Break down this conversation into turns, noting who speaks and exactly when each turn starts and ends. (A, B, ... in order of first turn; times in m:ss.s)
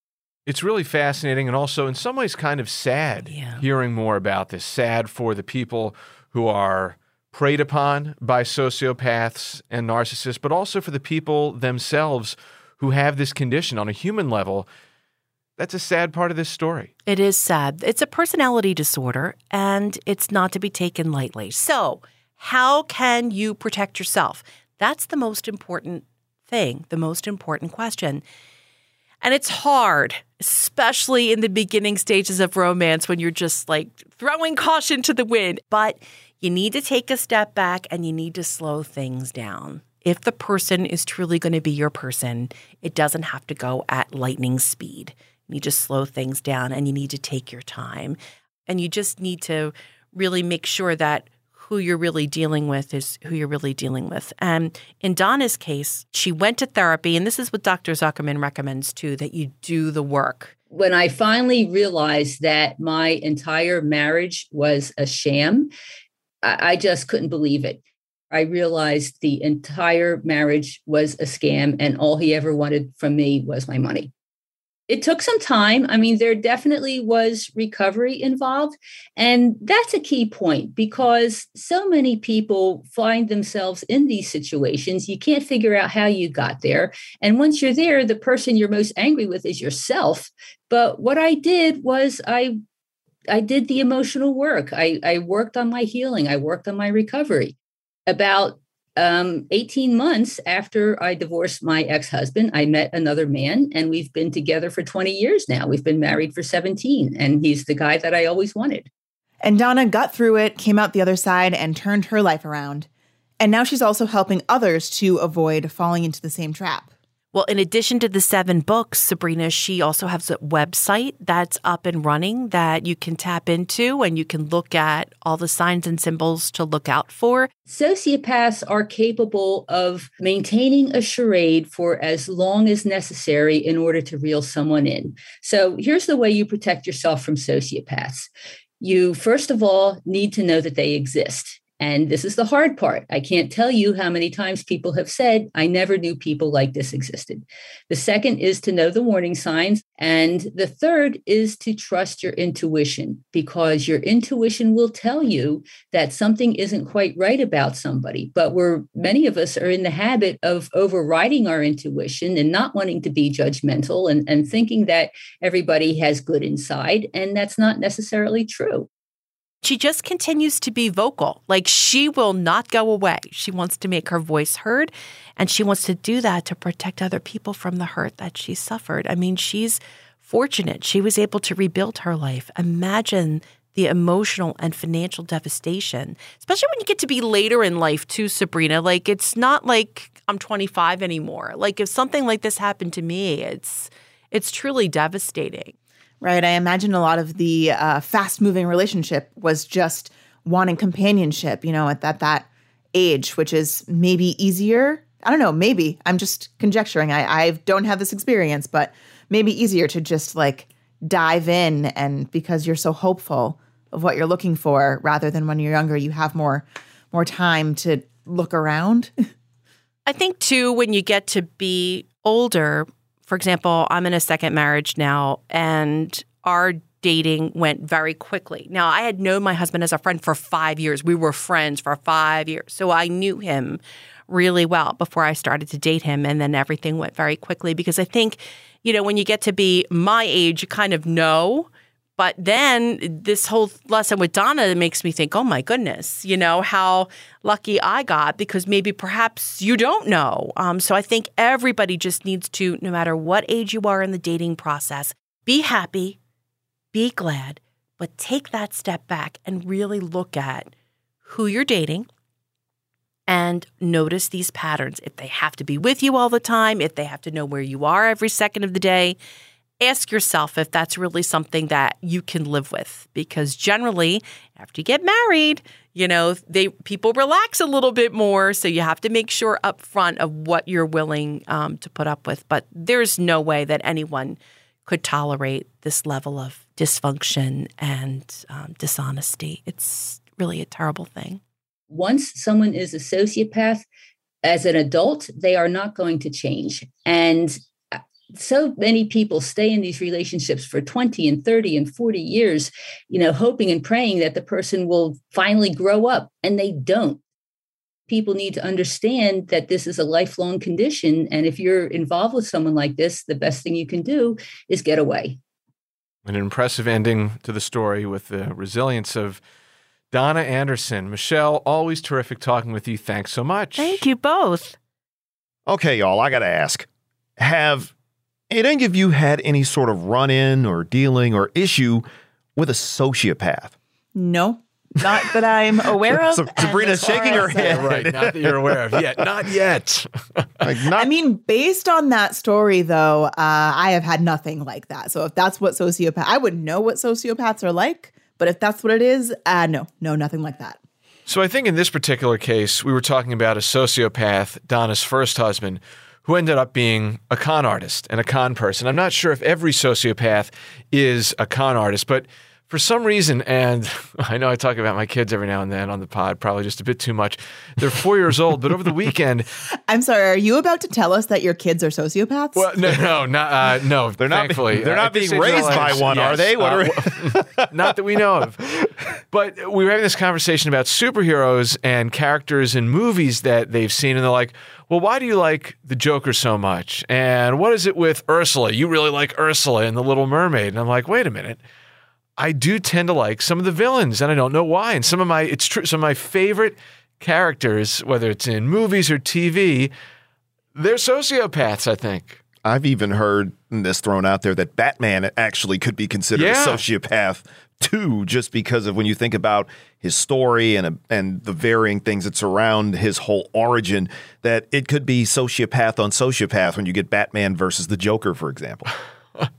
0:00.5-0:14.7 A
0:03.2-0:03.7 B
0:15.6-0:16.9 A
0:17.1-0:28.2 B
0:29.2-1:00.5 B
1:00.7-1:05.7 C
1:06.4-1:07.8 C
1:08.3-1:14.1 C
1:14.9-1:32.6 C
1:33.3-1:37.6 C
1:38.1-1:48.9 C
1:49.4-1:52.9 D
1:53.4-1:56.9 D
1:57.3-2:07.5 B
2:07.7-2:18.3 C
2:18.8-2:48.9 C
2:49.6-3:15.7 B
3:16.2-3:39.1 D
3:40.0-4:16.2 B
4:16.9-4:22.1 B
4:23.3-4:29.2 B
4:29.8-4:51.4 B
4:51.9-4:53.9 C
4:54.4-5:07.2 C
5:08.1-5:15.4 C
5:16.3-5:19.4 A
5:20.1-5:24.0 A
5:23.8-5:24.8 B
5:25.7-5:26.9 E
5:27.4-5:27.9 E
5:28.5-5:33.7 E
5:34.2-5:38.0 D
5:36.1-5:39.5 E
5:37.0-5:40.8 A
5:40.6-5:41.1 E
5:40.9-5:50.8 D
5:51.3-6:09.5 A
6:09.9-6:13.0 D
6:12.6-6:18.6 A
6:14.2-6:17.9 E
6:19.3-6:31.6 A
6:32.4-6:39.9 A
6:40.8-6:42.4 A
6:42.6-6:58.9 E
6:46.4-6:46.8 A